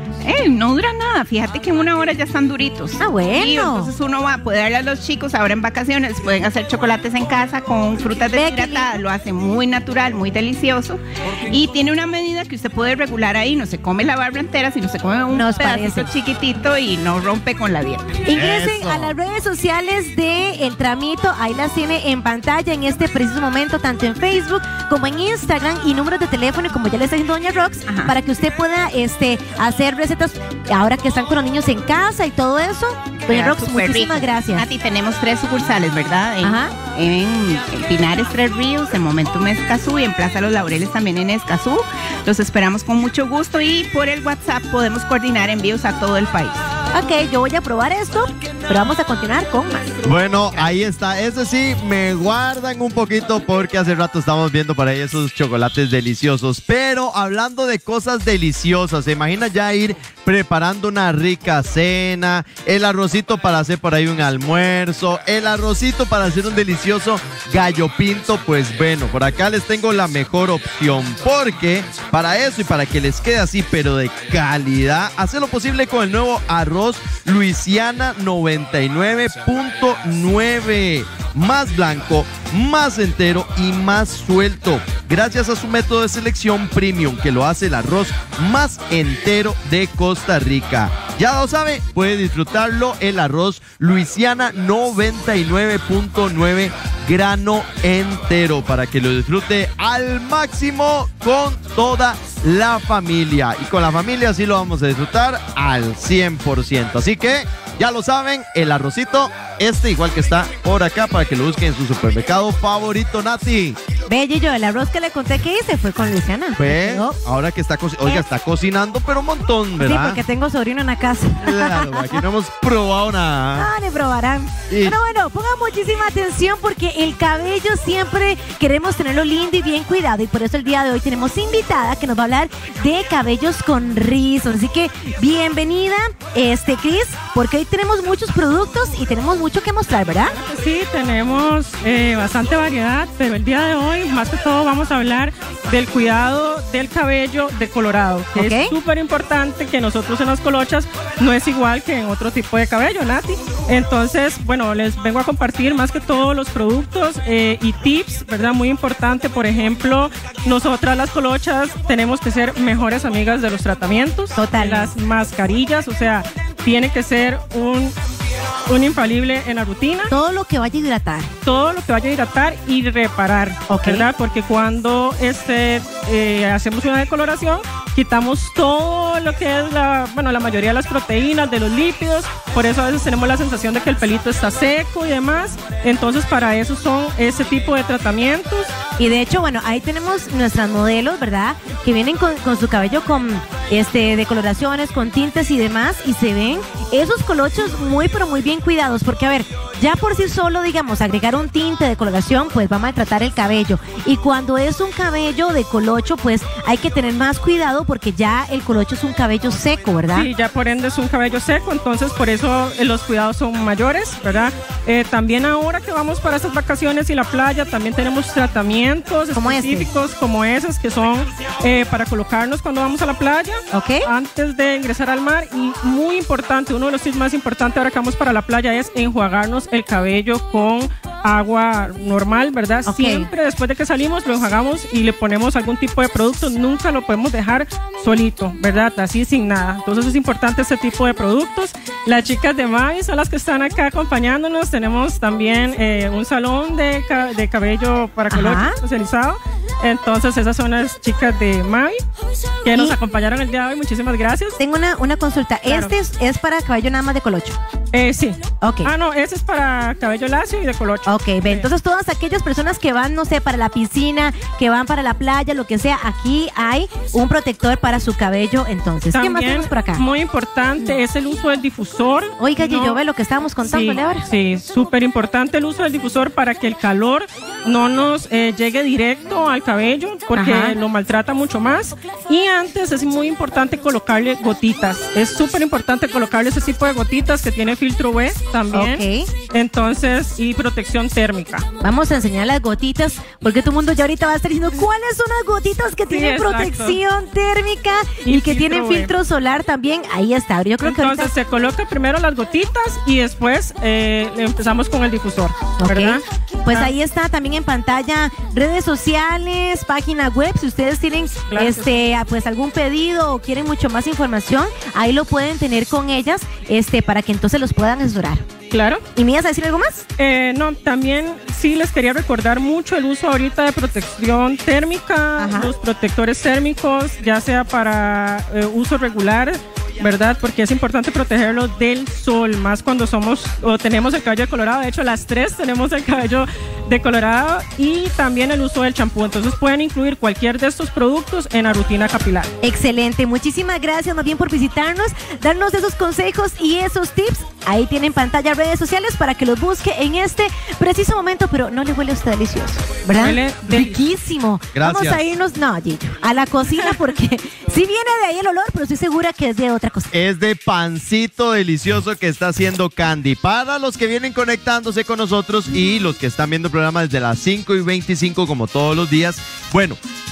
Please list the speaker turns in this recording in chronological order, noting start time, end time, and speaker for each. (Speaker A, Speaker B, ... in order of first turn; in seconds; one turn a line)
Speaker A: 0.2-18.2
Speaker B: 3.0-3.9
Speaker B: 8.3-9.0
Speaker B: 15.3-16.1
Speaker B: 18.2-34.6
Speaker C: 18.3-19.1
Speaker A: 27.9-28.1
Speaker A: 33.2-46.7
Speaker B: 36.4-36.7
Speaker B: 46.9-50.0
Speaker C: 50.0-113.8
Speaker B: 114.1-117.2
Speaker C: 116.6-120.2
Speaker B: 119.8-122.0
Speaker C: 121.4-123.7
Speaker B: 123.6-140.4
Speaker C: 124.7-125.0
Speaker D: 140.3-167.9
Speaker B: 148.3-148.7
Speaker B: 164.3-164.9
Speaker D: 168.7-170.1
Speaker B: 170.1-171.3
Speaker D: 171.4-188.7
Speaker B: 173.7-174.1
Speaker B: 189.0-210.3
Speaker D: 210.1-252.0
Speaker B: 219.3-219.9
Speaker B: 223.7-224.1
Speaker B: 232.9-233.3
Speaker B: 248.3-248.8
Speaker D: 252.6-254.6
Speaker B: 254.6-257.6
Speaker D: 255.6-255.9
Speaker D: 257.9-261.7
Speaker B: 258.6-258.9
Speaker B: 261.1-270.0
Speaker D: 269.1-273.0
Speaker B: 272.4-274.2
Speaker D: 273.6-291.6
Speaker B: 280.4-280.8
Speaker B: 288.7-289.3
Speaker B: 291.8-301.3
Speaker D: 296.1-297.0
Speaker D: 298.2-299.1
Speaker D: 300.8-306.9
Speaker B: 305.8-318.4
Speaker D: 311.5-312.1
Speaker D: 318.7-319.0
Speaker B: 319.1-320.1
Speaker D: 320.2-342.5
Speaker B: 325.4-325.7
Speaker B: 342.6-360.1
Speaker D: 353.1-354.0
Speaker C: 354.7-355.2
Speaker C: 360.1-370.0